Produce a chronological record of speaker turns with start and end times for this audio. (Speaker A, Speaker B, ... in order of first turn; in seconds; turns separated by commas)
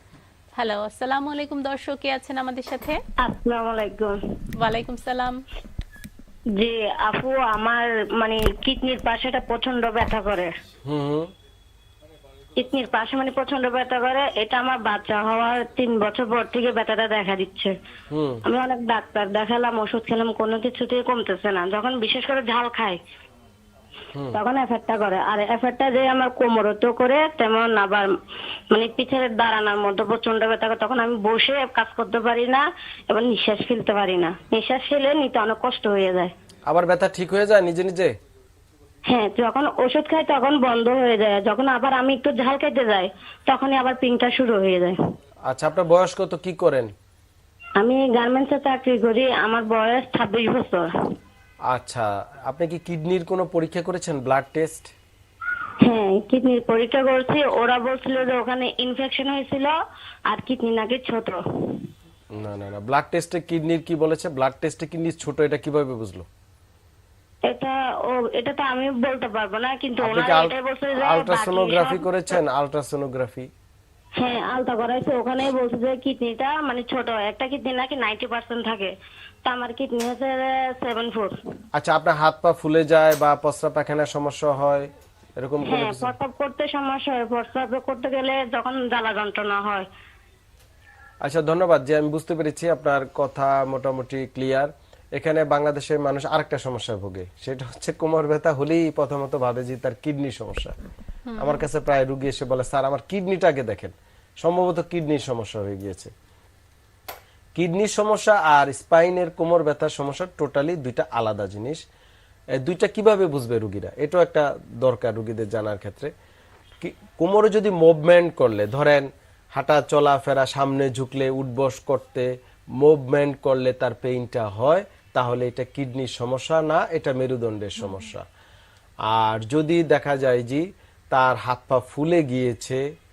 Speaker A: 0.6-3.0, Speaker B: 3.2-4.1, Speaker A: 4.6-5.4, Speaker B: 6.6-10.5, Speaker C: 10.9-11.3, Speaker B: 12.6-17.7, Speaker C: 18.1-18.4, Speaker B: 18.4-23.0, Speaker B: 24.3-28.1, Speaker B: 28.7-36.3, Speaker C: 36.7-38.1, Speaker B: 39.1-45.0, Speaker C: 45.5-46.9, Speaker B: 47.8-50.9, Speaker C: 51.7-54.9, Speaker B: 55.8-59.7, Speaker B: 60.3-61.8, Speaker C: 62.3-66.2, Speaker B: 67.5-72.1, Speaker C: 70.0-73.5, Speaker B: 74.2-78.9, Speaker B: 79.5-81.3, Speaker C: 81.8-84.9, Speaker C: 85.4-86.1, Speaker B: 85.7-89.9, Speaker C: 91.2-100.7, Speaker A: 101.3-101.7, Speaker C: 101.4-106.1, Speaker C: 107.5-111.8, Speaker C: 112.6-116.1, Speaker C: 116.8-122.3, Speaker C: 122.8-128.2, Speaker A: 127.8-128.1, Speaker C: 129.1-132.8